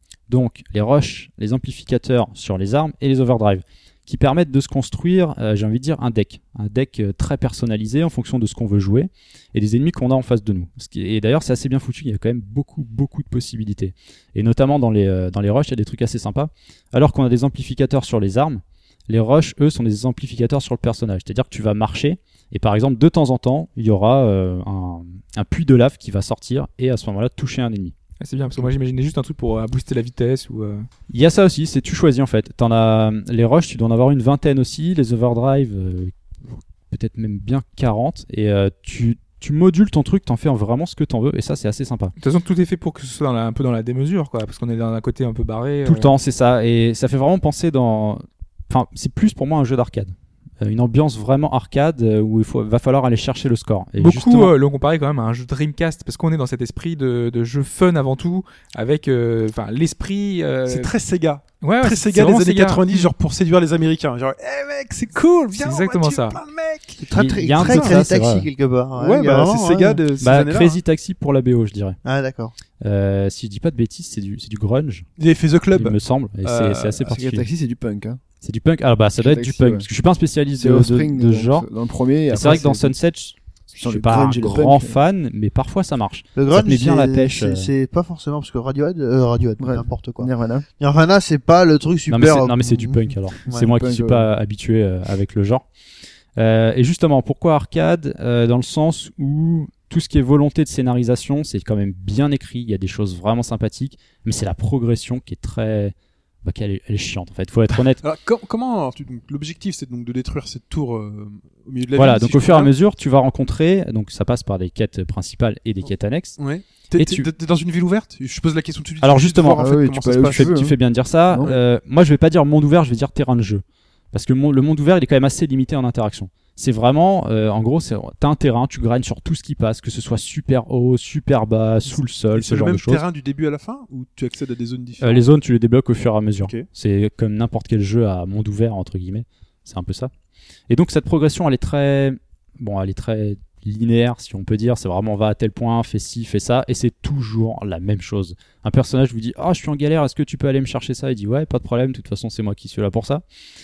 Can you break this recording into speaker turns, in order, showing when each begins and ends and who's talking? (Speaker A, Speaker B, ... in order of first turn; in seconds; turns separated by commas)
Speaker A: 0.3-27.9, Speaker B: 28.2-30.9, Speaker A: 31.1-42.1, Speaker B: 42.2-46.1, Speaker A: 45.8-54.5, Speaker B: 54.0-60.9, Speaker C: 60.7-68.0, Speaker B: 61.6-63.1, Speaker B: 65.6-66.4, Speaker D: 67.0-70.0, Speaker A: 67.1-68.5, Speaker C: 68.9-70.8, Speaker A: 70.2-72.0, Speaker D: 72.0-72.5, Speaker A: 72.8-75.1, Speaker C: 75.2-77.1, Speaker A: 75.7-77.5, Speaker E: 77.1-78.2, Speaker A: 78.4-81.7, Speaker E: 79.2-79.9, Speaker E: 80.6-82.9, Speaker A: 82.3-87.7, Speaker E: 83.8-85.0, Speaker D: 86.3-93.7, Speaker E: 89.6-90.7, Speaker A: 92.1-95.6, Speaker E: 93.5-94.3, Speaker A: 96.4-108.0, Speaker C: 108.0-112.7, Speaker A: 111.9-116.4, Speaker C: 116.4-120.6, Speaker A: 117.0-117.3, Speaker A: 119.0-133.0, Speaker E: 119.5-120.7, Speaker C: 131.9-135.2, Speaker A: 135.0-140.1, Speaker A: 140.7-153.2